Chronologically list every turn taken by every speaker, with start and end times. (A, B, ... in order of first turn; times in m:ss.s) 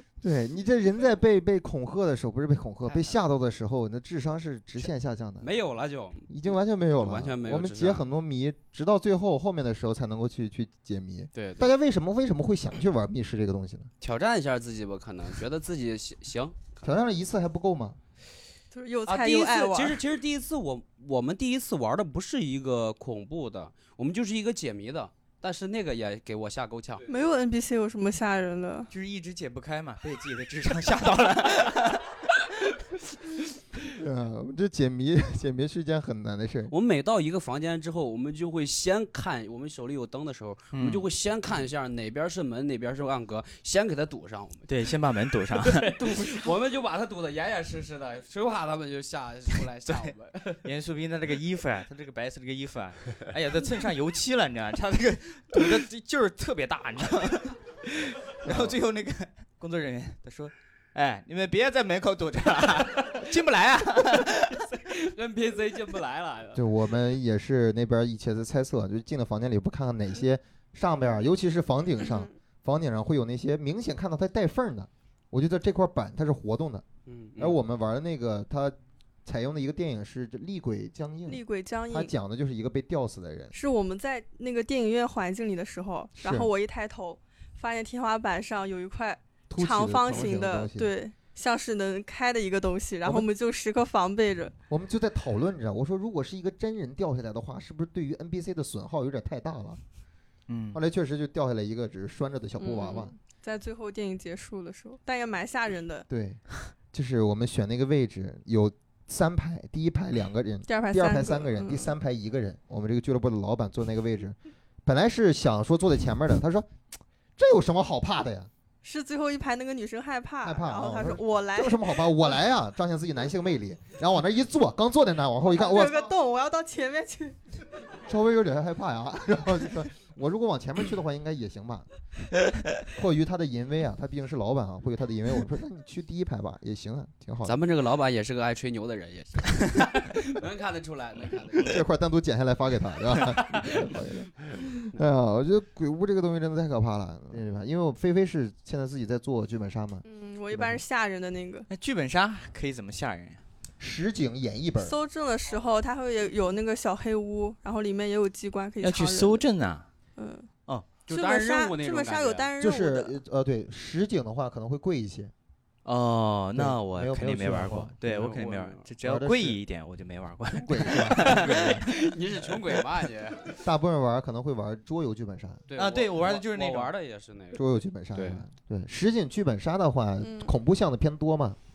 0:00.2-0:05.5 A
0:05.4-0:06.4 B
0:06.3-0:13.9 A
0:07.0-0:08.0 B
0:11.4-0:11.7 B
0:14.0-0:16.8 B
0:16.8-0:18.0 A
0:18.7-0:20.0 C
0:19.1-0:27.1 B
0:27.1-0:28.9 C
0:28.9-0:32.1 D
0:33.9-0:36.7 A
0:36.7-0:44.7 B
0:40.7-0:41.0 D
0:44.7-0:45.9 D
0:45.6-0:50.6 B
0:49.9-1:04.6 D
0:58.4-0:58.8 A
1:04.8-1:06.6 B
1:06.6-1:16.8 A
1:12.0-1:12.3 C
1:17.1-1:17.6 B
1:17.4-1:23.5 A
1:21.3-1:22.1 C
1:23.5-1:34.5 C
1:26.2-1:26.5 A
1:29.5-1:30.9 A
1:34.7-1:39.8 A
1:40.5-1:40.8 D
1:40.7-1:43.1 A
1:42.6-1:46.1 C
1:46.1-1:56.8 A
1:50.7-1:51.9 C
1:57.4-1:58.5 A
1:58.8-2:02.0 C
2:00.4-2:06.1 A
2:05.6-2:07.4 C
2:08.1-2:11.9 A
2:12.9-2:17.6 A
2:17.4-2:21.8 B
2:21.6-2:30.8 A
2:23.4-2:23.9 B
2:30.0-2:31.7 C
2:31.7-2:33.4 D
2:33.8-2:35.0 A
2:34.8-2:39.4 C
2:38.8-2:39.9 D
2:40.2-2:40.5 C
2:41.1-2:42.5 B
2:41.1-2:43.1 C
2:42.6-2:45.3 A
2:45.8-2:52.2 D
2:46.6-2:47.9 A
2:48.0-2:48.9 B
2:49.0-2:49.6 A
2:50.5-2:51.6 A
2:51.3-2:53.5 B
2:53.6-2:55.6 A
2:55.7-2:57.6 B
2:55.8-2:56.9 D
2:57.6-3:01.6 A
2:58.1-2:58.4 B
3:00.2-3:00.5 C